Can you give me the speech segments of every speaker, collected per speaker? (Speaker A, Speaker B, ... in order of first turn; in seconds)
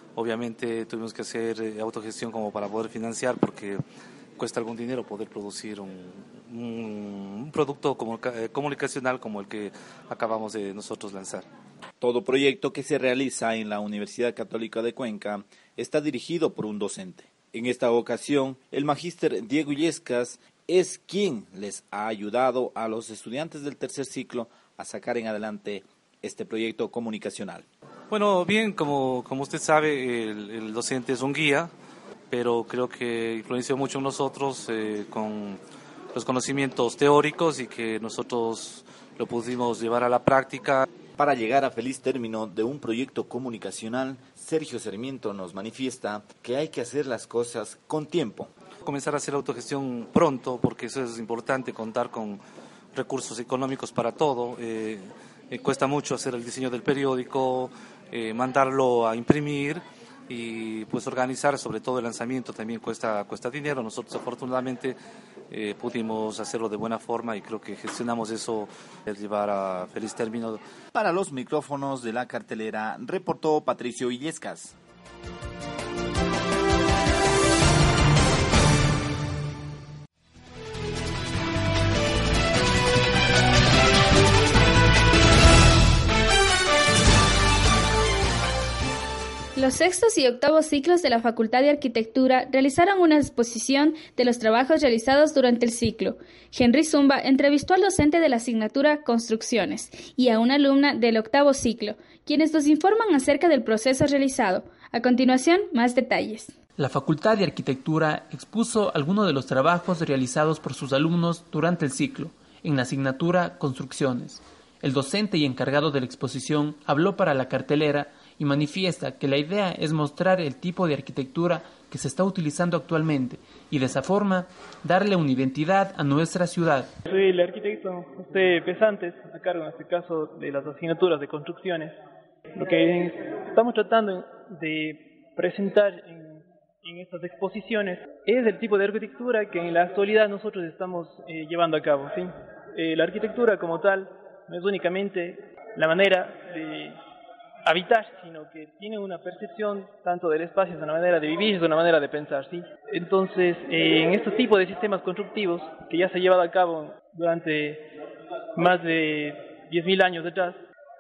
Speaker A: 0.1-3.8, 4.4-11.5, 28.1-31.7, 32.3-35.6, 36.1-40.9, 48.8-52.4, 52.9-65.0, 65.5-70.6
Speaker B: 12.0-27.6, 41.2-48.5, 70.9-74.7
Speaker C: 89.6-106.5
Speaker D: 106.8-126.9
Speaker E: 127.0-131.9, 132.6-147.0, 147.6-157.9, 158.6-160.6